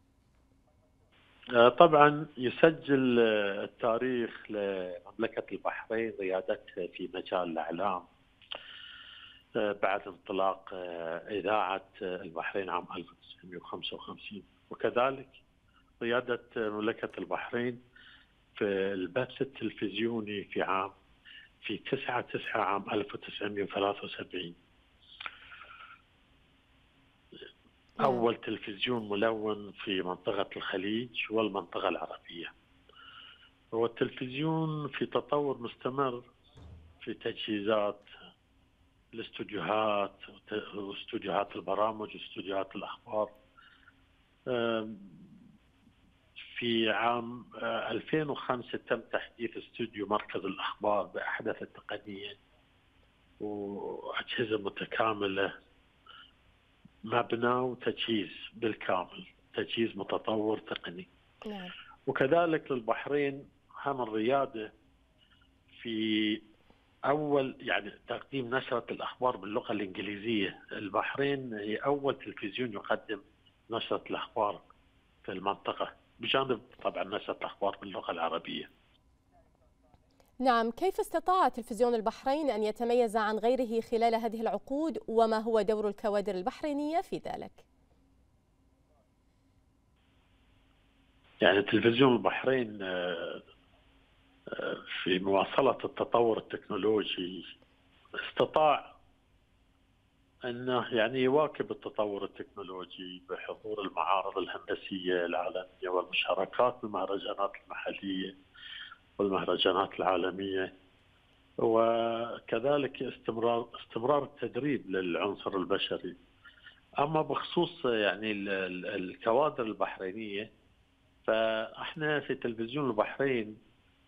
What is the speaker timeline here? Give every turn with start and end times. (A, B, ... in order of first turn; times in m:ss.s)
0:01.6-0:08.0 A
0:09.6-0:15.4 A
0:16.0-0:17.8 A
0:18.6-0:20.9 A
0:21.6-0:24.6 A
0:28.0-0:28.2 B
0:28.0-0:32.5 A
0:33.7-0:36.3 A
0:37.0-0:38.0 A
0:39.1-0:43.3 A
0:44.5-0:45.3 A
0:46.5-0:52.4 A
0:53.4-0:55.5 A
0:57.0-1:01.1 A
1:01.4-1:01.7 B
1:02.1-1:04.7 A
1:05.8-1:06.4 A
1:07.1-1:14.6 A
1:15.2-1:18.7 A
1:20.4-1:27.6 B
1:31.4-1:33.4 A
1:34.5-1:37.5 A
1:38.2-1:38.9 A
1:40.5-1:48.3 A
1:49.2-1:50.7 A
1:51.6-1:56.2 A
1:57.0-2:00.5 A
2:01.2-2:03.6 A